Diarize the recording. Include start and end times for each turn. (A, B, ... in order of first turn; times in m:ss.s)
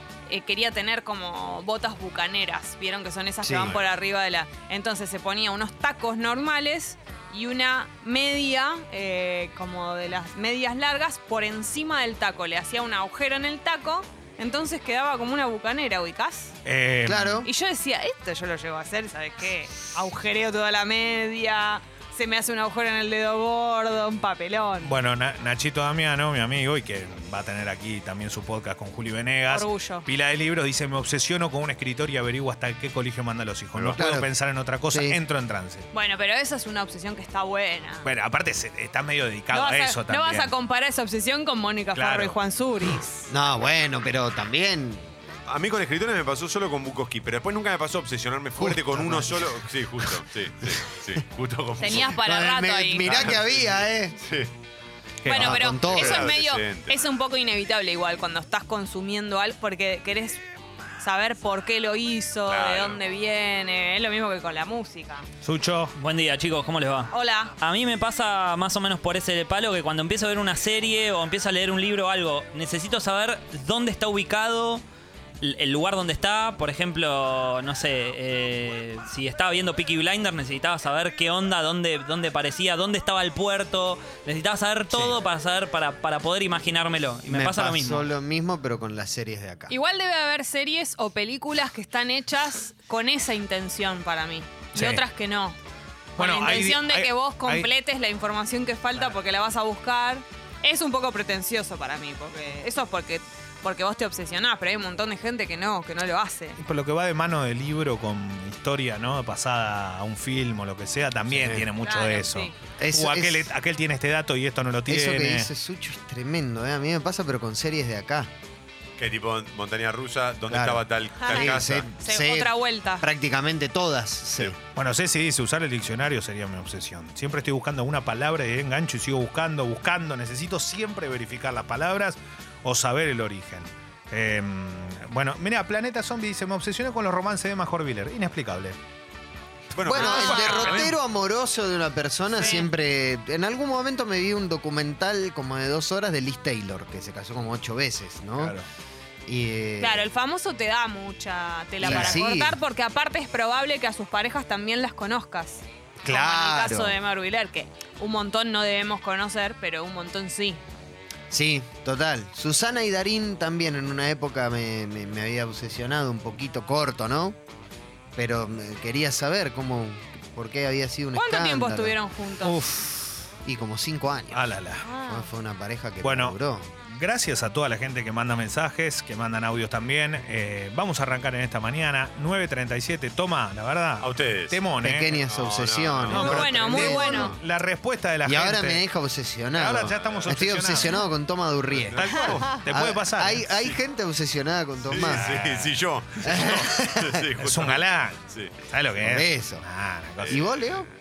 0:00.3-0:16.5 A
0:03.4-0:03.7 B
0:16.6-0:17.4 C
0:17.0-0:17.5 B
0:17.4-0:24.9 A
0:24.8-0:35.9 C
0:29.5-0:30.1 A
0:34.0-0:34.3 B
0:34.9-0:35.2 B
0:35.9-0:38.1 A
0:38.0-0:40.5 C
0:39.5-0:43.3 A
0:41.9-0:42.4 C
0:43.3-0:45.0 B
0:45.5-0:52.2 D
0:48.6-0:49.4 B
0:51.8-0:53.2 A
0:51.9-0:54.2 B
0:53.0-0:54.5 D
0:55.2-0:55.6 C
0:55.2-1:00.4 A
0:55.3-0:56.3 B
0:55.8-0:57.0 D
1:01.0-1:05.2 A
1:02.5-1:03.0 D
1:05.4-1:06.0 C
1:06.0-1:14.8 E
1:07.1-1:07.5 A
1:15.4-1:28.1 E
1:27.3-1:29.7 B
1:29.7-1:35.6 A
1:34.7-1:35.0 C
1:36.2-1:37.7 C
1:36.2-1:46.6 A
1:46.6-1:55.5 C
1:51.8-1:52.5 A
1:52.8-1:53.5 B
1:54.9-1:58.3 B
1:59.0-2:01.9 D
2:00.5-2:04.6 B
2:01.2-2:03.0 A
2:04.7-2:18.8 C
2:19.7-2:21.0 D
2:19.9-2:20.9 C
2:19.9-2:28.5 B
2:20.0-2:20.9 A
2:22.3-2:22.7 A
2:28.4-2:28.6 C
2:29.2-2:30.0 B
2:29.8-2:40.6 A
2:31.8-2:32.2 C
2:31.8-2:32.6 B
2:36.0-2:37.0 B
2:41.3-2:47.4 B
2:48.2-2:51.9 B
2:51.1-2:52.6 A
2:52.4-2:53.3 C
2:53.4-2:54.5 B
2:54.3-2:54.8 C
2:54.8-2:55.3 A
2:55.0-2:56.7 B
2:56.0-3:05.2 C
3:04.0-3:04.6 D
3:04.8-3:07.4 B
3:05.3-3:06.4 D
3:06.1-3:08.8 C
3:06.1-3:07.3 A
3:08.2-3:12.0 B
3:09.5-3:11.0 C
3:09.9-3:10.3 D
3:11.7-3:12.4 D
3:11.9-3:13.5 C
3:12.6-3:15.3 B
3:14.8-3:18.5 D
3:14.9-3:16.7 C
3:16.2-3:17.2 B
3:17.4-3:20.6 C
3:19.0-3:19.6 B
3:20.2-3:20.8 D
3:20.3-3:20.9 B